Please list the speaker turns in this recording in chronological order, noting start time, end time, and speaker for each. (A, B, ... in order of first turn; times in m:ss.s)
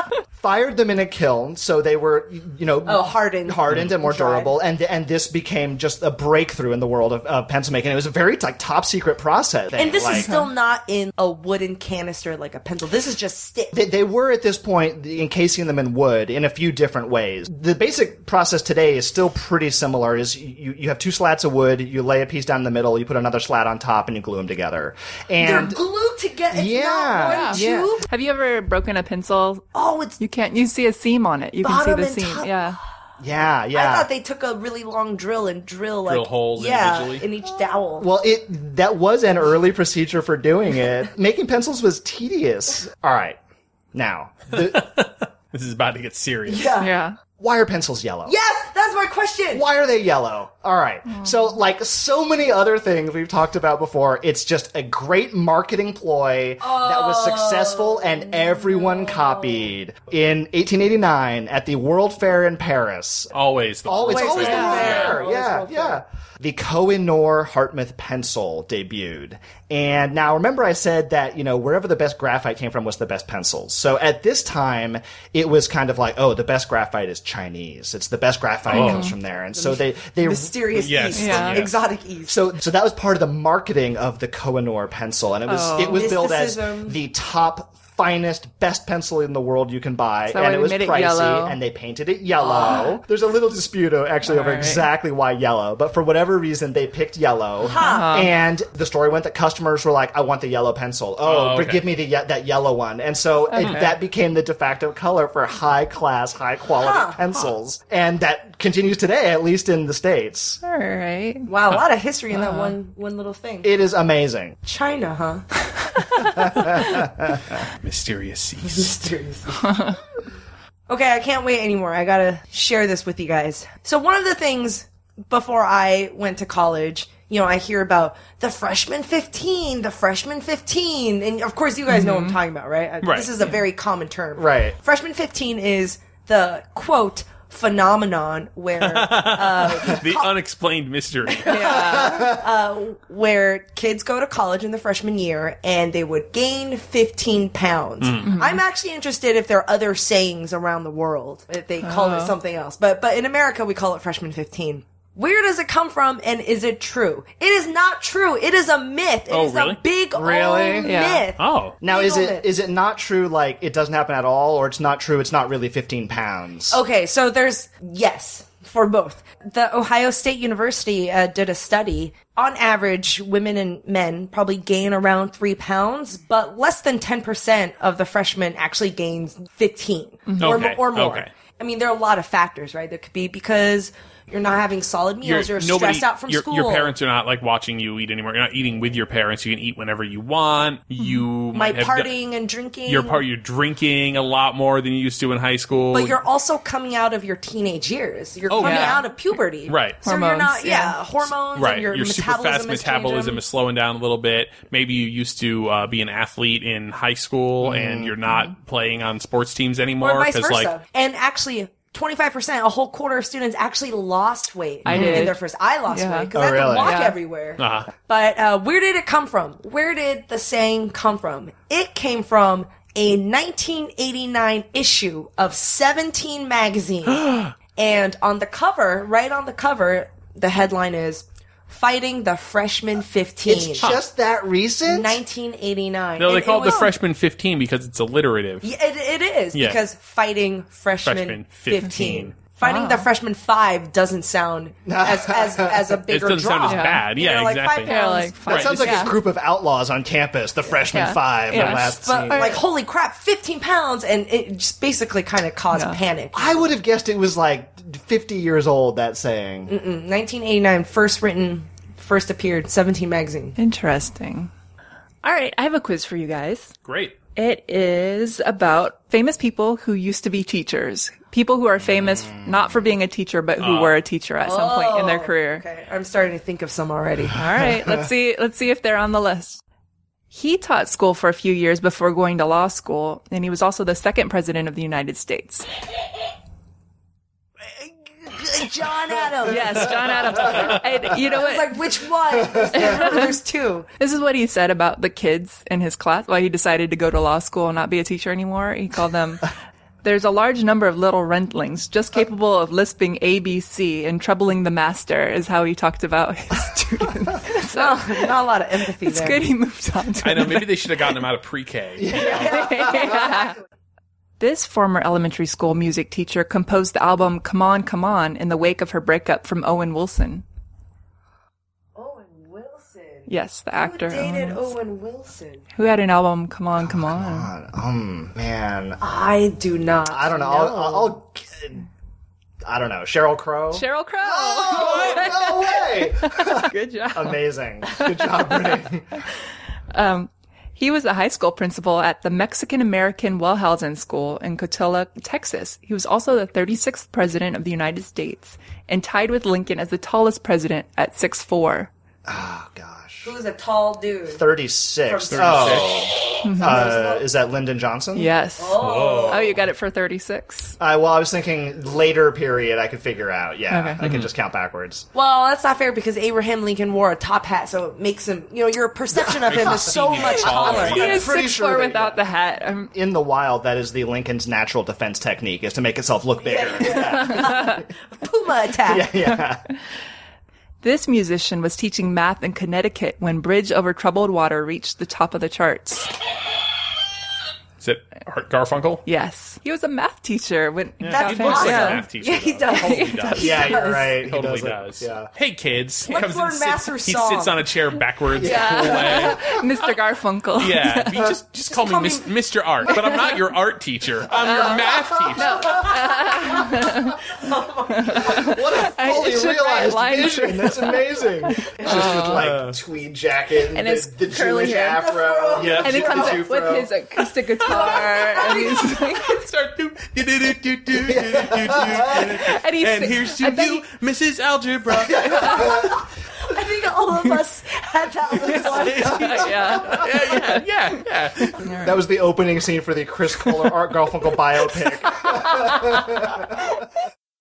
0:00.3-0:10.3 A
0:02.8-0:04.5 B
0:09.8-0:13.8 B
0:10.2-0:10.4 C
0:13.7-0:25.8 A
0:25.4-0:28.0 B
0:26.5-0:27.7 A
0:27.3-0:29.6 C
0:29.7-0:30.2 B
0:30.2-0:32.8 C
0:31.6-0:32.6 B
0:33.2-0:34.1 A
0:33.7-0:38.1 B
0:36.0-0:37.2 D
0:38.0-0:43.4 A
0:43.9-0:44.9 A
0:44.5-0:46.7 D
0:46.4-0:46.9 B
0:46.8-0:47.2 C
0:47.4-0:48.3 A
0:48.2-0:49.6 B
0:49.5-1:03.3 A
0:56.6-0:59.7 B
1:03.3-1:05.2 D
1:03.8-1:20.9 A
1:04.0-1:06.0 B
1:04.5-1:04.9 C
1:18.7-1:19.1 D
1:18.7-1:19.1 C
1:19.5-1:22.4 B
1:20.7-1:21.7 D
1:21.2-1:21.6 C
1:22.3-1:50.6 A
1:25.5-1:26.1 C
1:25.8-1:27.0 B
1:30.3-1:31.6 C
1:32.6-1:32.8 C
1:34.2-1:34.8 C
1:37.6-1:38.2 B
1:37.8-1:38.3 C
1:41.2-1:41.8 D
1:43.5-1:43.9 C
1:46.8-1:47.2 B
1:50.6-1:51.5 C
1:51.5-1:53.7 B
1:52.3-1:52.7 C
1:53.6-1:54.6 A
1:54.6-1:55.6 B
1:56.2-1:57.5 A
1:57.8-1:58.9 D
1:58.6-1:59.9 B
2:00.9-2:20.3 B
2:11.9-2:12.4 C
2:13.0-2:13.3 D
2:14.4-2:14.8 A
2:18.8-2:21.8 D
2:21.3-2:42.4 B
2:21.5-2:22.2 C
2:21.9-2:22.4 A
2:28.0-2:28.3 D
2:28.2-2:28.6 C
2:31.8-2:32.3 C
2:39.3-2:39.8 D
2:40.1-2:41.0 A
2:40.8-2:41.3 C
2:41.4-2:41.8 D
2:41.8-2:46.8 A
2:46.7-3:06.9 B
3:00.3-3:00.6 C
3:00.4-3:01.3 D
3:05.2-3:12.1 D
3:11.5-3:13.2 B
3:12.8-3:16.2 D
3:15.9-3:23.4 B
3:18.5-3:19.1 D
3:18.6-3:19.0 C
3:19.6-3:20.0 D
3:20.0-3:21.0 C
3:21.5-3:30.7 D
3:27.6-3:28.1 A
3:30.0-3:53.9 B
3:34.8-3:35.2 D
3:34.8-3:35.4 C
3:35.9-3:37.2 C
3:36.3-3:37.0 A
3:37.6-3:37.9 D
3:47.0-3:47.5 D
3:53.4-3:55.2 A
3:54.8-3:56.9 B
3:56.2-3:58.7 D
3:58.6-4:08.4 B
3:59.5-3:59.8 D
4:01.0-4:02.4 D
4:02.6-4:03.1 C
4:04.8-4:06.0 A
4:06.1-4:09.0 D
4:06.7-4:07.0 C
4:07.8-4:09.1 C
4:08.4-4:12.6 A
4:10.9-4:12.6 C
4:11.6-4:16.7 B
4:15.7-4:16.0 C
4:16.3-4:19.7 A
4:19.7-4:23.6 B
4:23.6-4:24.5 C
4:25.2-4:26.7 C
4:26.8-4:27.2 D
4:27.4-4:35.6 C
4:31.8-4:32.8 A
4:33.6-4:34.0 D
4:34.4-4:37.4 B
4:37.3-4:39.6 C
4:40.3-4:45.7 C
4:47.8-4:53.9 B
4:49.4-4:51.8 C
4:52.7-4:53.3 C
4:54.0-4:59.5 C
5:00.0-5:08.3 C
5:07.7-5:09.5 B
5:09.0-5:10.8 C
5:10.2-5:12.6 D
5:12.0-5:13.0 A
5:12.1-5:13.5 B
5:12.3-5:13.6 C
5:14.4-5:20.4 C
5:21.9-5:25.6 B
5:23.3-5:24.7 C
5:25.7-5:27.5 C
5:26.8-5:29.0 A
5:29.0-5:31.2 B
5:30.1-5:31.8 A
5:32.6-5:39.2 A
5:33.7-5:38.7 C
5:39.9-5:51.9 C
5:52.2-5:53.3 A
5:53.2-5:54.5 B
5:54.3-5:58.3 A
5:55.0-5:57.3 B
5:55.3-5:56.1 D
5:56.4-5:56.8 C
5:58.1-6:00.8 C
5:58.6-5:59.5 B
5:58.8-5:59.6 D
6:00.8-6:05.1 A
6:03.7-6:04.0 C
6:04.0-6:04.3 D
6:05.1-6:11.4 B
6:09.2-6:11.2 D
6:09.4-6:12.2 A
6:10.4-6:12.9 C
6:12.9-6:17.8 A
6:16.4-6:19.1 B
6:17.1-6:17.8 C
6:18.8-6:19.6 A
6:20.8-6:26.1 C
6:27.8-6:29.0 D
6:29.0-6:32.0 C
6:31.0-6:39.5 D
6:31.0-6:34.1 B
6:32.7-6:33.9 C
6:33.4-6:35.3 A
6:36.1-6:37.7 B
6:38.4-6:39.4 A
6:38.4-6:41.2 C
6:40.6-6:45.8 D
6:41.7-6:42.2 B
6:42.9-6:43.2 C
6:44.4-6:47.2 C
6:44.9-6:45.5 A
6:45.6-6:45.9 B
6:47.3-6:48.5 B
6:47.9-6:52.5 C
6:48.1-6:56.9 A
6:51.9-6:52.8 D
6:53.7-6:55.1 C
6:54.8-6:56.4 B
6:55.6-6:56.0 D
6:55.8-6:59.4 C
6:57.6-6:58.9 B
6:57.7-6:58.6 D
6:59.2-7:05.7 D
7:01.0-7:02.3 A
7:02.1-7:03.8 C
7:05.1-7:05.9 C
7:05.1-7:05.9 A
7:05.6-7:09.5 B
7:08.4-7:10.7 C
7:08.5-7:11.6 D
7:11.4-7:12.0 C
7:11.8-7:16.7 A
7:15.2-7:16.2 C